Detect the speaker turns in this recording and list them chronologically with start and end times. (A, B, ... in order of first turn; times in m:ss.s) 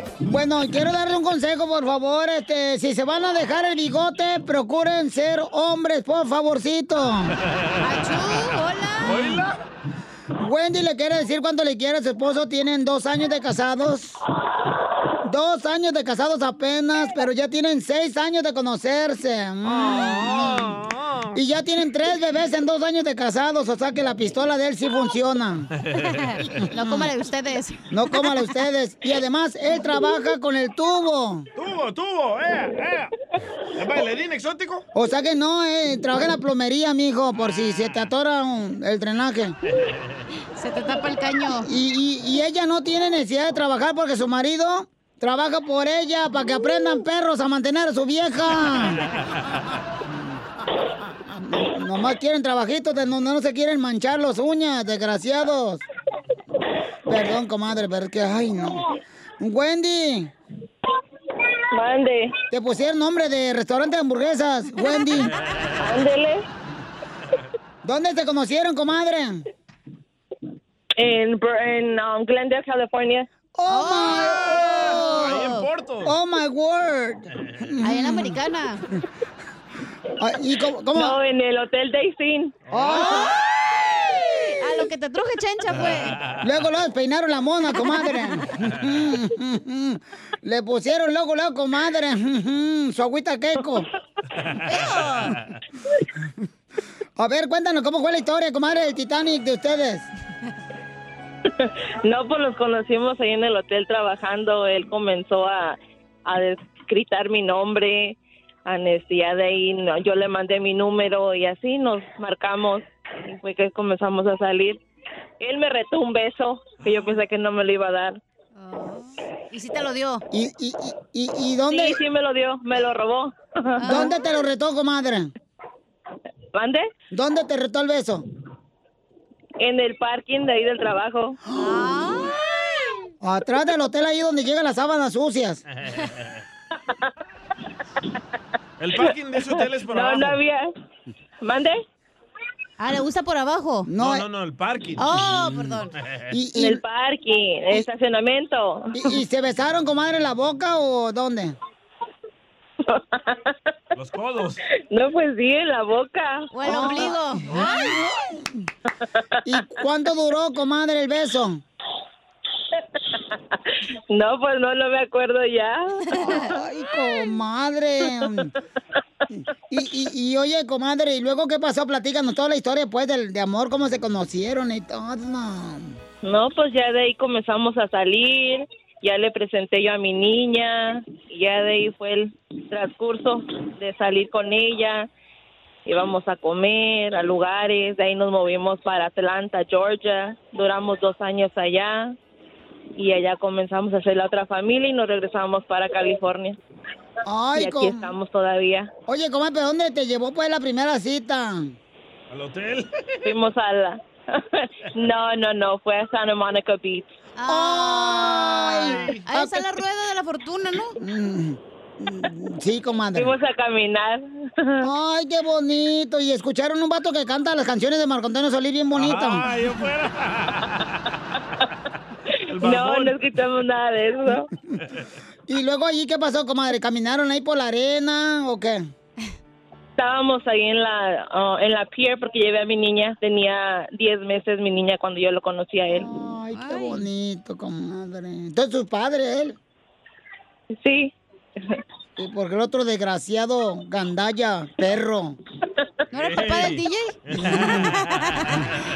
0:00.2-0:07.3 A
0:07.8-0:09.4 B
0:09.0-0:09.5 C
0:10.4-0:14.2 A
0:15.2-0:20.7 A
0:19.6-0:21.4 C
0:21.3-0:25.7 A
0:25.8-0:26.2 C
0:26.1-0:28.3 B
0:26.8-0:27.1 A
0:27.9-0:31.5 A
0:31.6-0:33.1 C
0:33.8-0:34.8 C
0:34.9-0:39.5 A
0:37.4-0:38.0 C
0:39.8-0:40.2 C
0:40.6-0:41.7 B
0:41.6-0:49.0 A
0:51.3-0:55.8 A
0:57.1-0:58.9 A
0:59.4-1:00.3 A
1:01.8-1:02.3 D
1:02.5-1:05.3 A
1:05.8-1:06.4 D
1:07.8-1:09.4 A
1:11.0-1:13.2 D
1:13.6-1:15.4 A
1:13.7-1:15.7 B
1:14.4-1:16.1 C
1:16.0-1:18.4 A
1:17.8-1:18.8 B
1:20.2-1:21.2 A
1:21.0-1:22.5 D
1:22.7-1:23.2 C
1:22.7-1:23.4 A
1:23.0-1:23.3 B
1:24.6-1:26.2 B
1:25.8-1:26.4 C
1:26.4-1:33.8 A
1:34.7-1:35.4 B
1:34.7-1:35.1 C
1:37.2-1:40.1 A
1:42.1-1:45.8 D
1:46.3-1:48.1 D
1:48.7-1:52.8 D
1:53.4-1:54.8 D
1:55.4-1:58.2 D
1:58.6-2:00.2 B
2:00.3-2:02.0 A
2:01.7-2:03.3 D
2:03.8-2:04.1 B
2:03.8-2:05.3 A
2:06.5-2:06.8 D
2:07.1-2:08.2 A
2:09.6-2:11.3 D
2:11.5-2:12.0 A
2:11.6-2:12.3 B
2:13.2-2:15.6 A
2:15.8-2:16.4 C
2:18.8-2:20.4 C
2:19.8-2:20.6 D
2:21.4-2:21.7 D
2:22.8-2:23.9 B
2:23.9-2:24.2 A
2:24.0-2:25.4 C
2:25.0-2:25.9 B
2:26.3-2:26.8 A
2:26.6-2:28.8 D
2:29.0-2:31.5 A
2:34.0-2:34.6 C
2:34.9-2:36.3 D
2:36.5-2:38.0 B
2:36.6-2:38.5 A
2:39.5-2:41.6 A
2:44.1-2:45.8 D
2:46.2-2:48.5 A
2:49.7-2:55.9 A
2:56.2-3:05.1 D
3:05.9-3:12.1 D
3:13.0-3:16.5 D
3:17.2-3:18.1 A
3:17.6-3:18.9 D
3:19.1-3:21.7 A
3:22.3-3:23.2 C
3:23.2-3:24.0 D
3:25.0-3:27.0 D
3:27.4-3:31.0 B
3:27.5-3:29.6 A
3:28.8-3:29.3 C
3:31.0-3:33.3 A
3:33.2-3:34.2 D
3:34.8-3:39.4 A
3:38.9-3:40.6 C
3:42.6-3:43.2 C
3:42.6-3:44.4 D
3:45.5-3:48.8 A
3:50.0-3:56.1 D
3:56.0-3:59.6 A
3:56.5-3:57.0 B
4:00.8-4:01.1 D
4:02.2-4:05.4 A
4:06.1-4:07.1 B
4:06.2-4:08.6 C
4:07.4-4:07.8 A
4:07.7-4:08.4 B